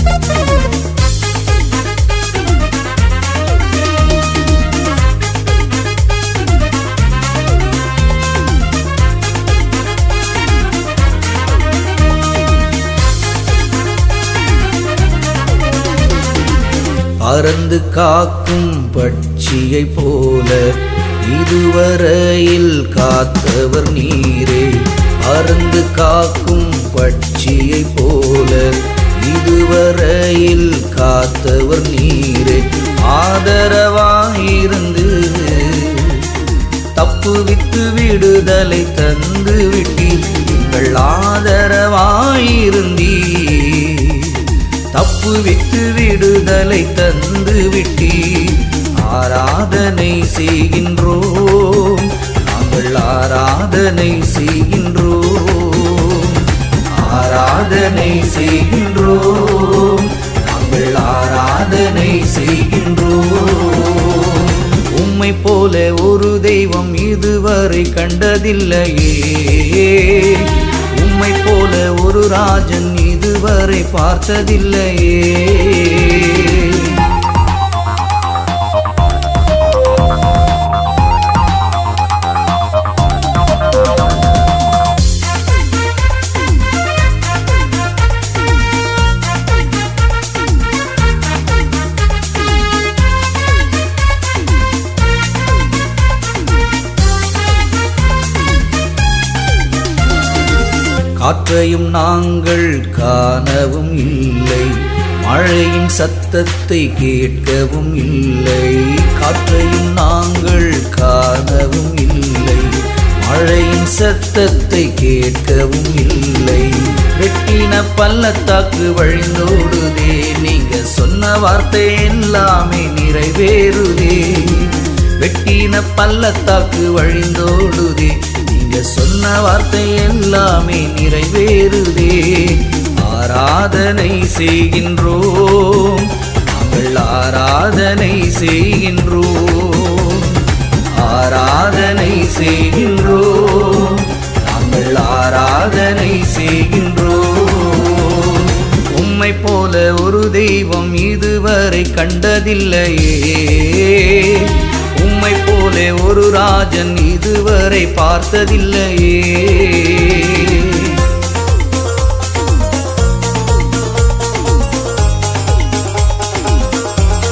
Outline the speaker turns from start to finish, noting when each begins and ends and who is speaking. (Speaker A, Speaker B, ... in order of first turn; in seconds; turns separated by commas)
Speaker A: 17.2-36.3, Speaker A: 36.9-77.0, Speaker A: 101.2-161.0